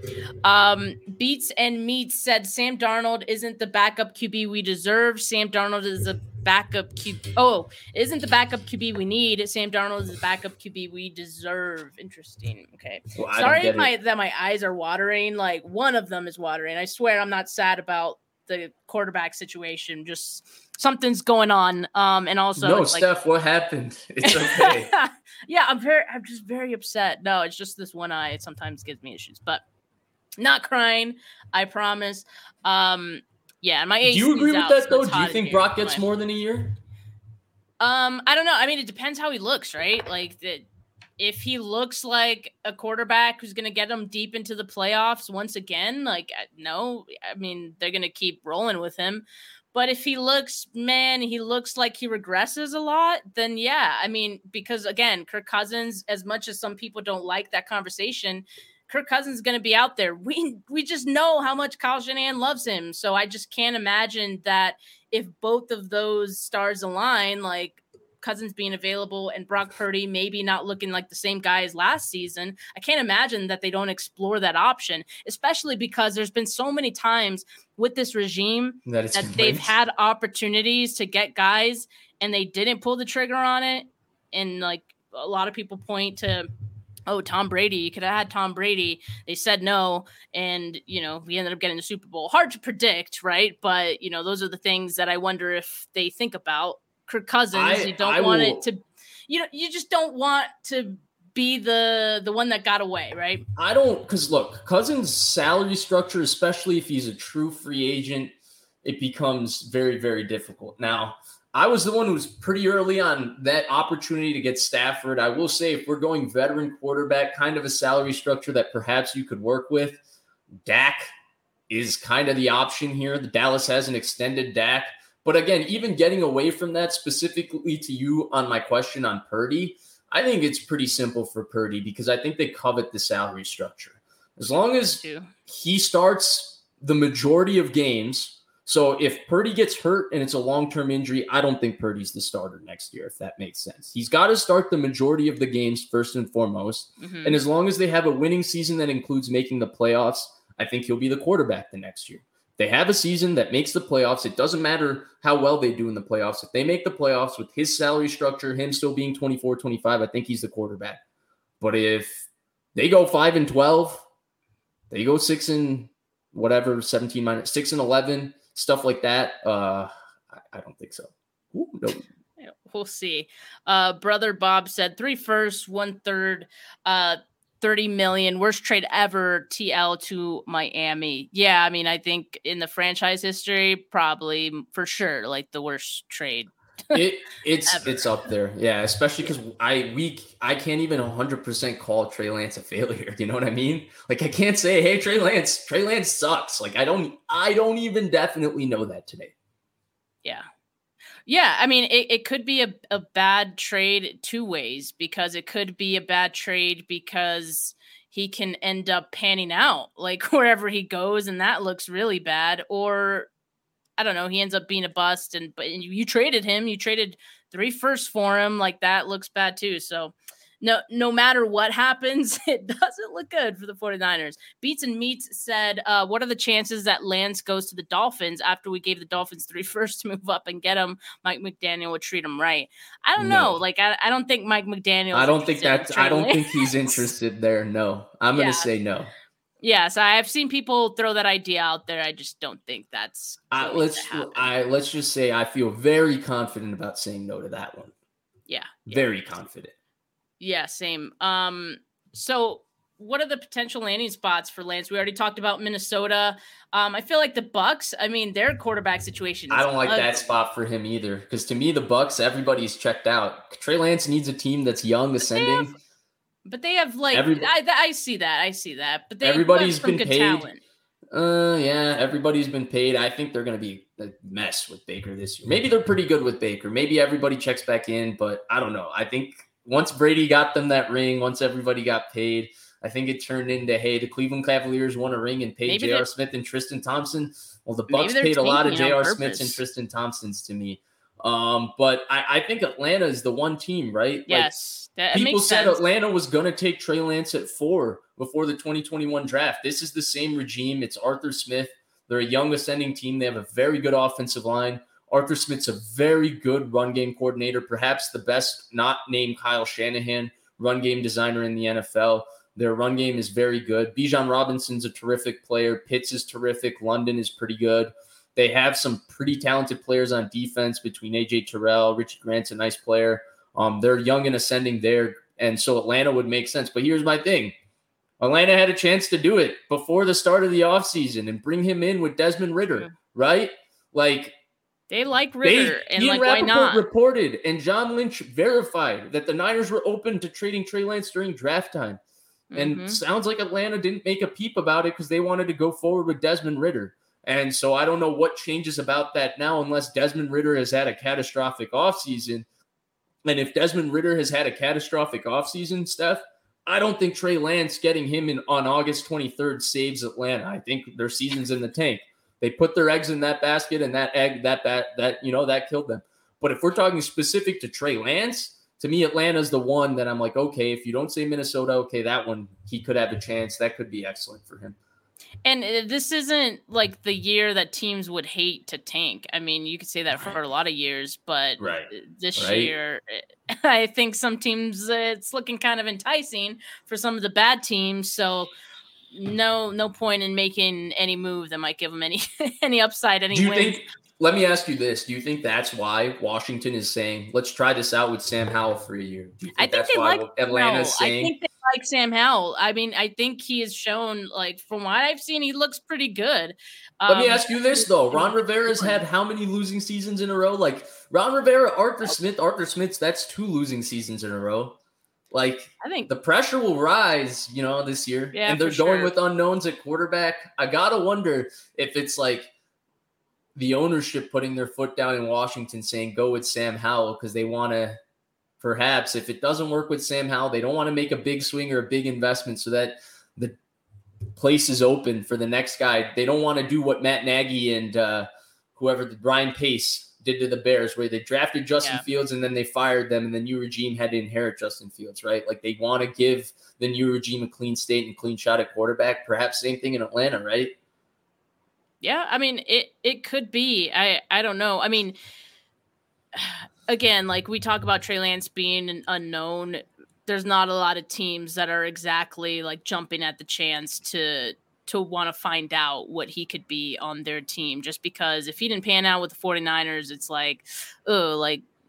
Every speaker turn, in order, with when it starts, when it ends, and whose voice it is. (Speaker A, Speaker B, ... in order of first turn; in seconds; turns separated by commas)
Speaker A: 0.4-23.1, Speaker B: 13.1-13.9, Speaker B: 22.6-24.9, Speaker A: 24.2-29.6, Speaker A: 30.4-36.0, Speaker B: 34.0-36.8, Speaker A: 37.8-40.6, Speaker A: 41.2-86.5, Speaker B: 78.8-79.7, Speaker A: 87.1-103.4, Speaker B: 97.5-98.6, Speaker B: 103.6-108.3, Speaker B: 108.8-120.0, Speaker B: 120.6-121.1, Speaker B: 121.7-161.0, Speaker A: 134.9-135.3, Speaker A: 147.0-147.4, Speaker B: 161.6-164.0, Speaker B: 164.9-172.0, Speaker A: 172.4-187.0, Speaker B: 186.9-199.3, Speaker A: 187.7-188.1, Speaker A: 201.3-213.3, Speaker A: 214.0-237.1, Speaker B: 233.2-233.6, Speaker B: 235.1-239.1, Speaker A: 238.3-238.7, Speaker A: 239.6-244.5, Speaker B: 243.5-247.9, Speaker A: 248.5-249.1, Speaker B: 248.9-249.7, Speaker A: 250.4-260.2, Speaker B: 259.5-265.8, Speaker A: 265.2-265.7, Speaker A: 266.4-270.6, Speaker B: 267.1-267.5, Speaker B: 269.2-270.5, Speaker B: 271.1-294.5, Speaker A: 285.6-286.1, Speaker A: 287.9-289.6, Speaker A: 294.3-295.8, Speaker B: 295.1-327.5, Speaker B: 328.2-334.3, Speaker A: 334.9-336.8, Speaker B: 335.4-342.0, Speaker A: 342.5-343.0, Speaker B: 342.6-352.5, Speaker B: 353.2-374.8, Speaker A: 375.4-388.5, Speaker B: 381.6-382.7, Speaker A: 389.1-393.8, Speaker B: 393.3-401.3, Speaker A: 399.6-409.0, Speaker B: 407.1-414.8, Speaker B: 415.3-422.5, Speaker A: 415.8-416.1, Speaker A: 418.3-419.1, Speaker B: 423.5-428.0, Speaker B: 428.6-433.6, Speaker B: 434.3-450.7, Speaker A: 441.8-442.0, Speaker A: 452.0-455.1, Speaker A: 456.3-471.6